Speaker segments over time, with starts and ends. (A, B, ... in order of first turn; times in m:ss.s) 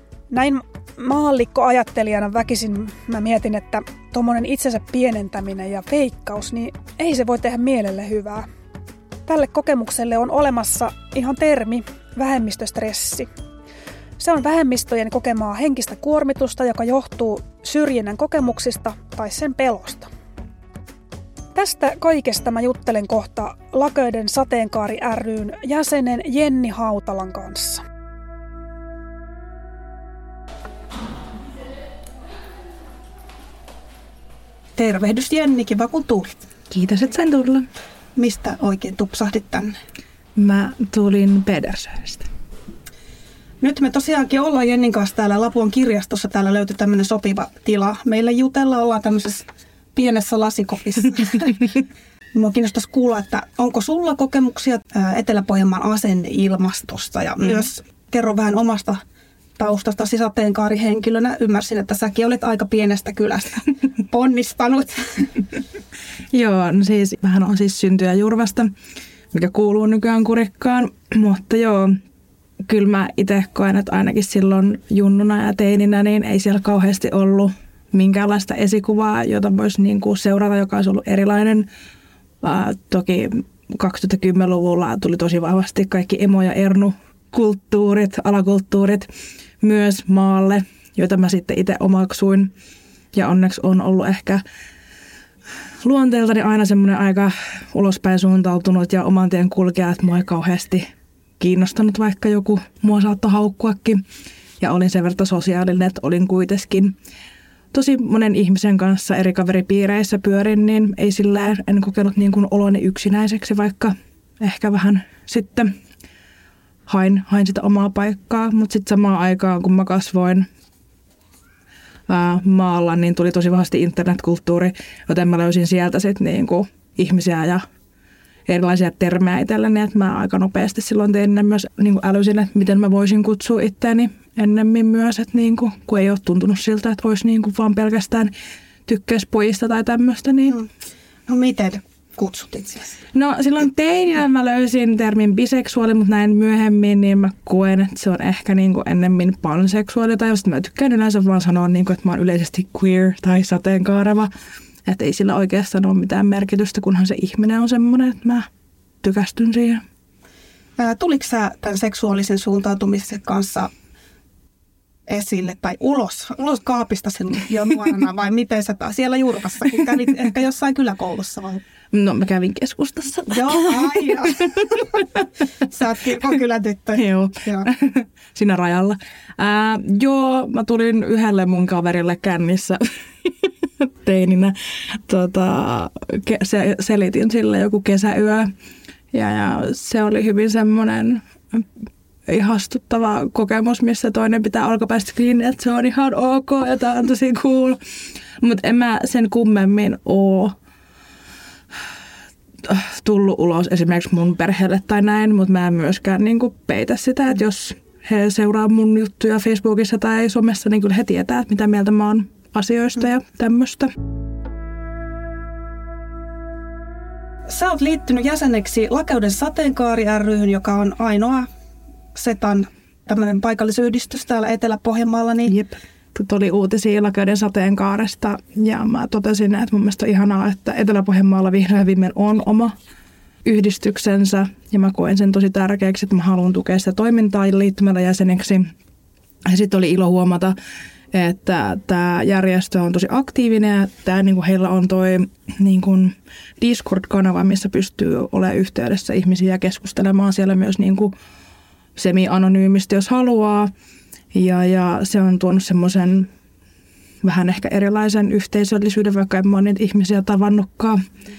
0:00.3-0:08.5 A
0:09.3-0:13.3 A
0:14.2-0:20.1 A
0:21.6-0:27.8 A
0:34.8-0:36.3 B
0:36.7-0:37.7 C
0:38.2-0:39.8 B
0:40.4-0:42.3 C
0:43.6-0:51.7 B
0:52.4-0:59.0 B
0:59.6-1:05.4 B
1:06.3-1:08.7 C
1:09.3-1:12.0 C
1:12.6-1:21.7 C
1:22.4-1:29.1 C
1:29.6-1:32.5 C
1:33.1-1:34.4 C
1:35.8-1:40.9 C
1:41.4-1:44.0 C
1:44.6-1:47.0 C
1:47.7-1:55.7 C
1:56.9-2:00.5 C
2:02.1-2:07.6 C
2:08.5-2:18.3 C
2:18.9-2:20.6 C
2:21.3-2:23.0 B
2:23.1-2:34.3 C
2:34.9-2:38.5 C
2:39.0-2:39.8 C
2:40.8-2:43.7 B
2:45.1-2:51.6 B
2:51.9-2:55.0 C
2:53.3-2:55.0 B
2:55.7-2:57.7 B
2:57.0-3:08.5 C
3:09.1-3:11.7 C
3:12.3-3:17.8 C
3:18.4-3:20.6 C
3:22.7-3:33.9 C
3:37.5-3:41.5 B
3:42.2-3:45.5 B
3:45.5-3:52.8 C
3:53.4-3:58.7 C
3:59.5-4:00.6 C
4:01.1-4:11.2 C
4:12.0-4:13.7 C
4:14.3-4:16.3 C
4:17.2-4:21.0 C